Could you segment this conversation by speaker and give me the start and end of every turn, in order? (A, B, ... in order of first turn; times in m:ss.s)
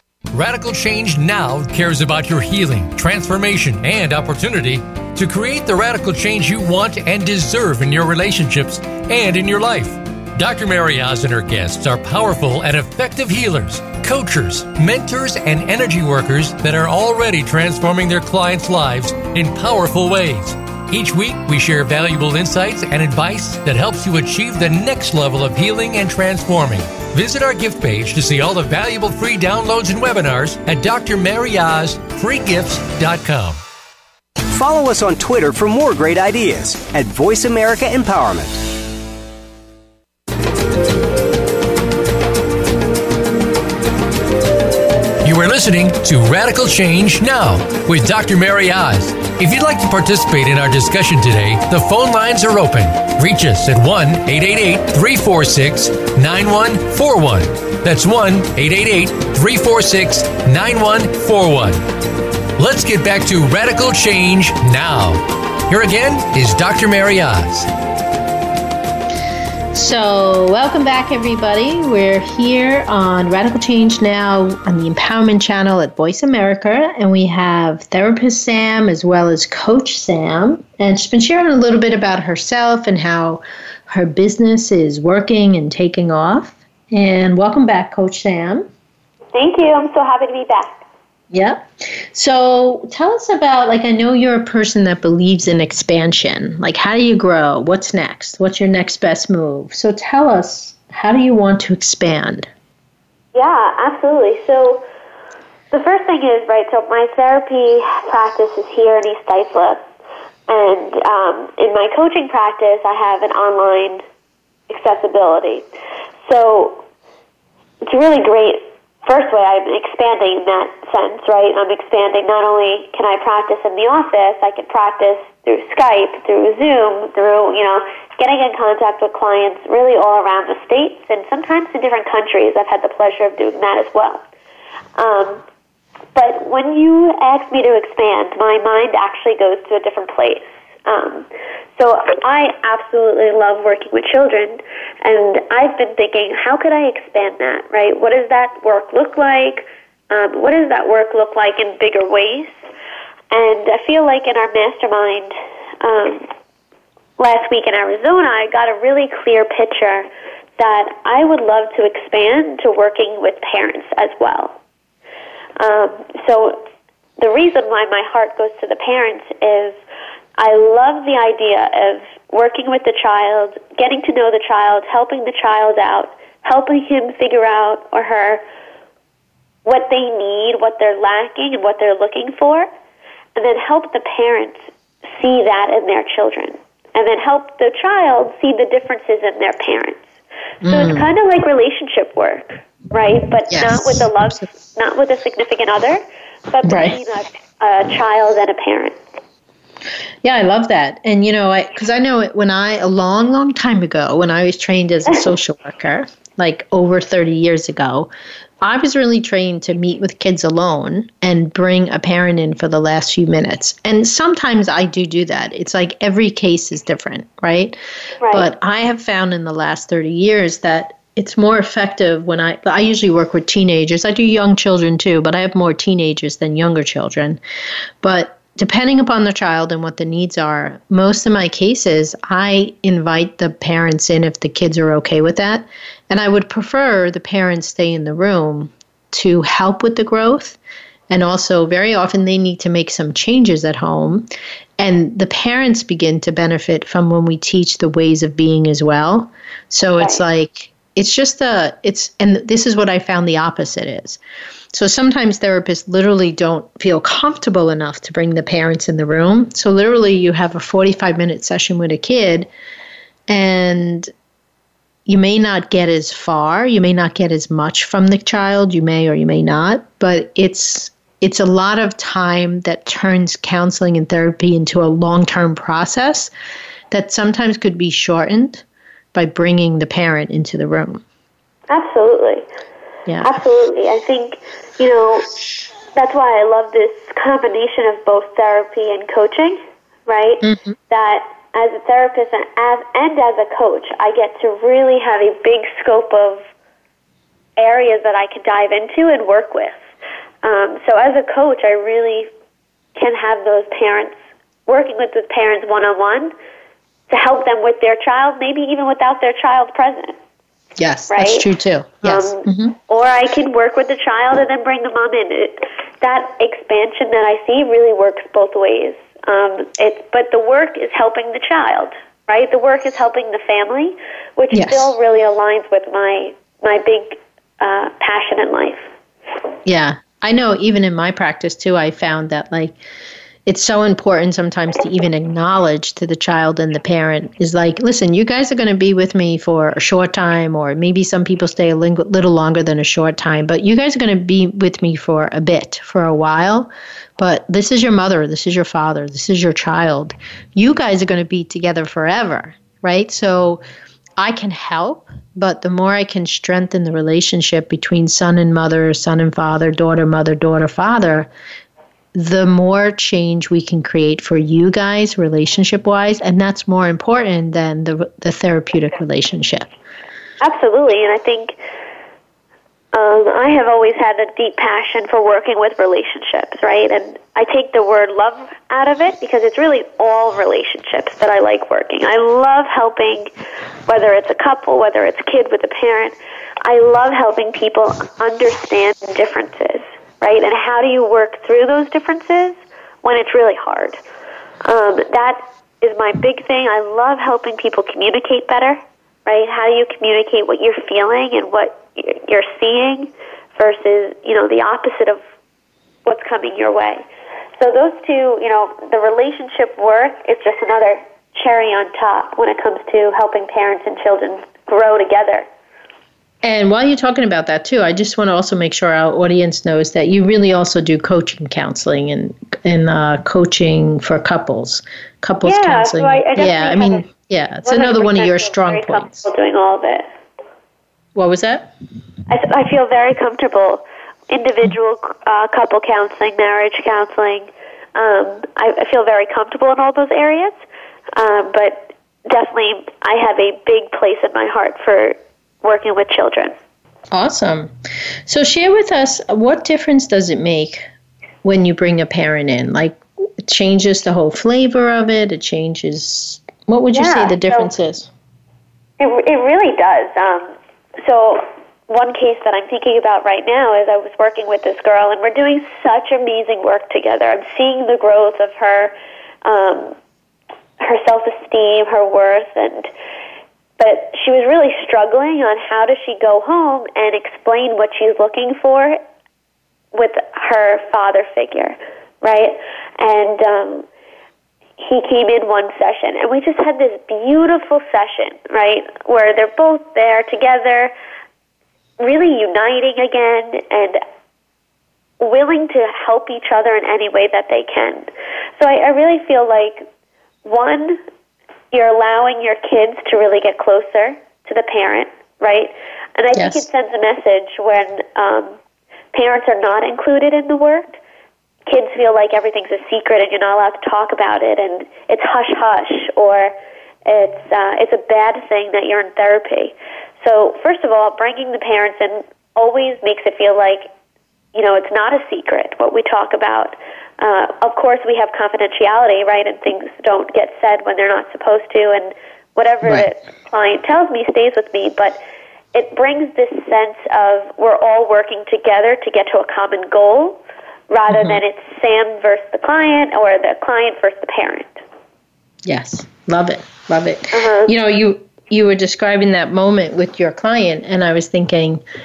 0:00.3-0:33.6 A
0:34.5-0:38.6 B
0:45.2-1:01.8 A
1:02.6-1:07.7 A
1:09.7-1:28.7 C
1:29.3-1:30.8 D
1:31.3-1:42.5 C
1:43.3-1:44.8 D
1:45.7-1:49.8 D
1:50.5-1:54.0 D
1:54.7-1:55.6 D
1:56.3-1:56.8 D
1:57.8-2:14.2 D
2:15.0-2:15.4 D
2:16.1-2:32.6 D
2:33.3-2:36.3 D
2:37.2-2:40.1 D
2:40.6-2:44.6 D
2:45.6-2:46.6 D
2:47.2-2:49.8 D
2:50.4-2:58.4 D
2:59.6-3:02.7 D
3:03.3-3:10.1 D
3:10.6-3:11.0 C
3:10.6-3:19.0 D
3:13.5-3:14.4 C
3:16.6-3:17.0 C
3:20.2-3:28.1 C
3:28.6-3:37.8 C
3:38.2-3:38.5 D
3:38.3-3:47.4 C
3:48.0-4:00.6 C
4:01.1-4:04.3 C
4:04.8-4:14.2 C
4:14.7-4:22.5 C
4:23.3-4:24.1 C
4:25.0-4:36.3 C
4:36.9-4:41.0 C
4:41.7-4:42.4 D
4:43.0-4:43.3 C
4:43.2-4:45.3 D
4:45.9-4:56.4 D
4:50.4-4:50.7 C
4:57.6-4:59.8 D
5:00.4-5:02.3 D
5:02.9-5:06.3 D
5:07.1-5:10.2 D
5:10.8-5:12.7 C
5:11.1-5:11.4 D
5:12.0-5:28.9 D
5:24.5-5:24.9 C
5:29.6-5:32.8 C
5:33.4-5:53.6 C
5:54.2-6:01.3 C
6:02.1-6:09.7 C
6:10.4-6:11.6 D
6:12.9-6:23.3 D
6:23.9-6:34.0 D
6:34.6-6:45.2 D
6:46.0-6:47.0 D
6:47.6-6:55.4 D
6:56.4-7:09.2 C
7:05.4-7:07.0 D
7:07.6-7:10.1 D
7:11.1-7:11.7 C
7:12.3-7:20.6 D
7:21.1-7:26.5 D
7:27.1-7:27.7 C
7:28.2-7:30.8 C
7:31.4-7:38.1 C
7:36.9-7:37.7 D
7:39.0-7:50.0 D
7:50.8-7:52.9 D
7:53.8-7:59.0 D
7:59.9-8:03.9 D
8:04.8-8:10.9 D
8:12.0-8:14.0 D
8:15.2-8:19.8 D
8:20.4-8:21.0 D
8:21.7-8:28.5 D
8:26.3-8:26.6 C
8:29.1-8:31.0 D
8:31.7-8:43.9 D
8:44.5-8:55.2 D
8:55.7-9:04.8 D
9:01.1-9:01.4 C
9:05.6-9:11.8 C
9:07.3-9:07.7 D